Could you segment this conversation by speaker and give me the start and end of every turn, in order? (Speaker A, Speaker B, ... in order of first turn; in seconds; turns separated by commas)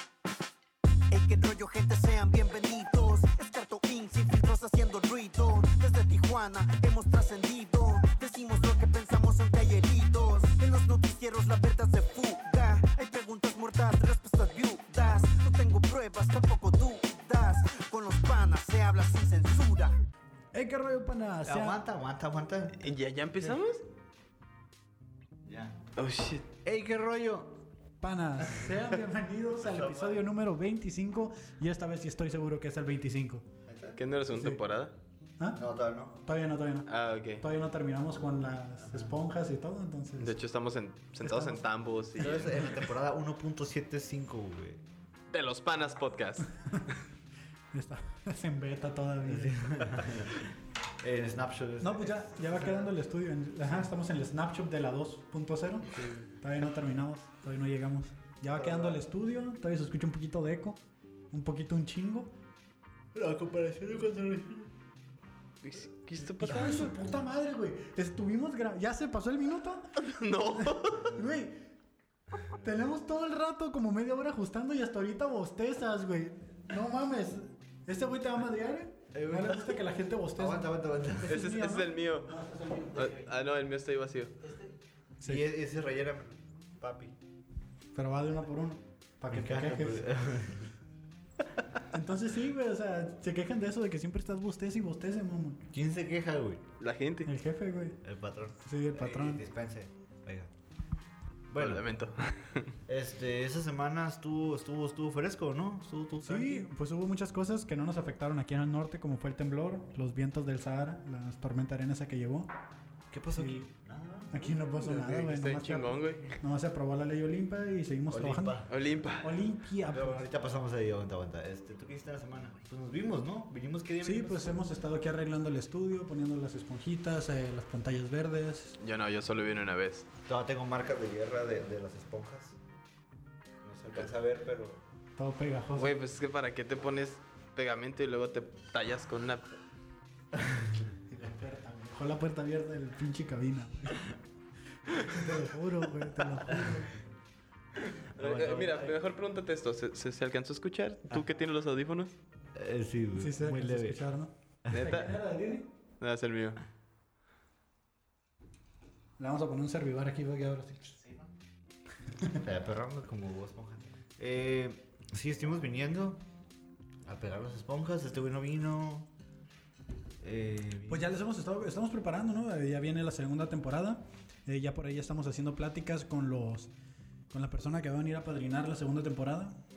Speaker A: 1.1-19.9, Speaker B: 20.5-21.8, Speaker C: 21.4-22.8, Speaker D: 22.8-23.8, Speaker C: 25.4-25.8, Speaker D: 26.0-26.4, Speaker C: 26.6-27.6, Speaker B: 28.0-33.5, Speaker C: 28.4-28.8, Speaker C: 29.6-30.2, Speaker C: 33.6-34.0, Speaker D: 34.0-35.0, Speaker B: 34.3-34.6, Speaker C: 35.5-36.2, Speaker B: 36.2-36.9, Speaker D: 36.9-37.4, Speaker B: 37.4-40.4, Speaker D: 40.2-42.7, Speaker B: 41.2-41.6, Speaker C: 42.2-44.8, Speaker D: 45.3-47.0, Speaker B: 47.7-50.2, Speaker C: 49.2-53.0, Speaker B: 51.8-60.8, Speaker C: 58.5-59.0, Speaker B: 61.3-62.3, Speaker C: 63.1-64.7, Speaker D: 65.6-67.0, Speaker B: 66.4-70.0, Speaker C: 66.5-66.8, Speaker D: 70.0-71.2, Speaker B: 70.6-71.7, Speaker B: 72.6-83.3, Speaker C: 79.1-79.8, Speaker C: 80.4-81.4, Speaker D: 81.3-82.4, Speaker D: 82.9-84.4, Speaker C: 85.2-87.2, Speaker B: 88.0-90.0, Speaker C: 89.3-90.7, Speaker B: 91.9-95.6, Speaker C: 95.7-96.7, Speaker D: 96.8-97.3, Speaker B: 97.2-98.0, Speaker C: 98.0-100.5, Speaker B: 98.6-99.4, Speaker C: 101.5-101.9, Speaker D: 101.6-102.7, Speaker C: 102.9-106.7, Speaker B: 106.3-112.5, Speaker C: 113.1-114.5, Speaker B: 113.4-113.7, Speaker B: 114.3-118.6, Speaker D: 114.8-116.4, Speaker C: 118.1-119.1, Speaker D: 118.7-119.4, Speaker B: 119.2-120.3, Speaker C: 119.9-124.6, Speaker B: 124.0-128.8, Speaker D: 128.8-130.1, Speaker C: 130.3-132.6, Speaker C: 133.6-134.8, Speaker B: 135.2-135.9, Speaker D: 135.8-139.6, Speaker C: 140.3-140.9, Speaker B: 141.1-144.1, Speaker B: 144.9-146.9, Speaker C: 146.5-146.8, Speaker D: 147.8-152.2, Speaker C: 148.2-149.0, Speaker C: 151.1-151.4, Speaker C: 152.6-154.0, Speaker B: 153.2-155.7, Speaker D: 154.7-155.2, Speaker D: 156.0-156.6, Speaker B: 159.2-161.0, Speaker C: 161.0-161.3, Speaker C: 162.3-166.2, Speaker C: 167.1-169.1, Speaker C: 170.2-171.1, Speaker B: 170.9-176.7, Speaker B: 177.3-179.6